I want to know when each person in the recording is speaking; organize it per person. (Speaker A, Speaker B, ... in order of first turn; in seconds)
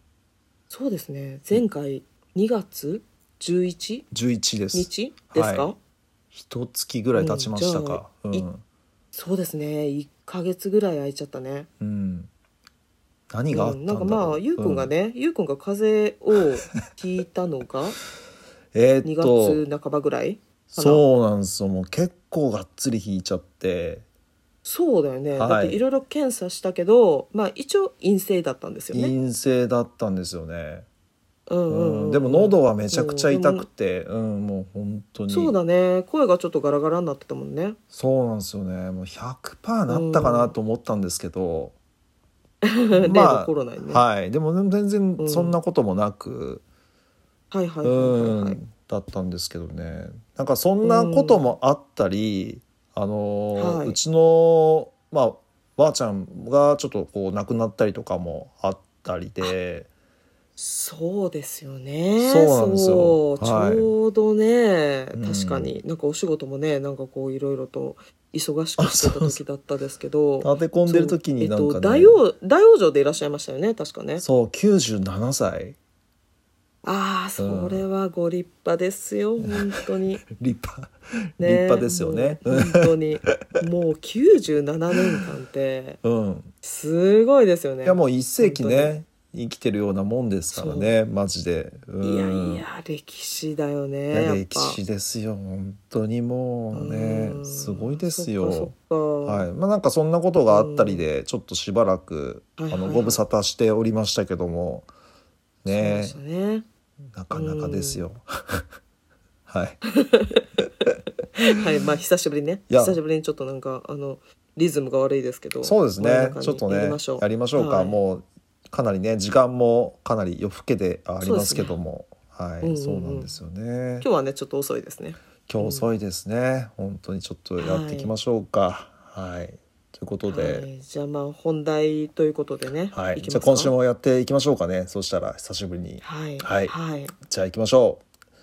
Speaker A: 0.7-4.1, 4.7-5.8, 7.1-8.5, 9.1-11.7, 13.5-18.0, 19.0-21.1, 24.6-29.1, 31.5-33.7, 35.3-37.8, 39.9-40.5, 42.6-44.0, 45.2-45.6, 47.5-48.6, 50.8-51.4, 53.6-54.0, 60.6-74.2, 76.8-80.2, 81.4-86.0, 86.6-89.0, 90.5-90.9, 92.0-94.8, 96.7-99.5, 100.5-101.1, 102.6-103.2, 105.7-106.7, 107.3-108.0, 109.9-110.5, 111.4-118.0, 121.2-121.8, 122.6-123.3, 124.0-125.9, 127.6-128.1, 130.3-133.7, 136.0-137.2
Speaker B: 4.1-5.7, 6.3-8.6, 11.8-12.3, 13.3-14.9, 18.7-19.6, 20.7-24.1, 25.3-25.8, 28.9-30.9, 31.7-35.6, 37.9-41.8, 43.0-46.6, 47.8-59.9, 62.2-63.9, 65.1-65.7, 68.8-69.4, 70.4-72.2, 74.2-75.8, 77.4-77.9, 80.3-82.9, 86.0-86.5, 87.8-92.6, 94.1-98.7, 99.2-104.9, 105.6-106.2, 107.1-108.7, 109.5-109.8, 112.7-113.0, 115.6-124.1, 125.5-130.7, 132.9-138.0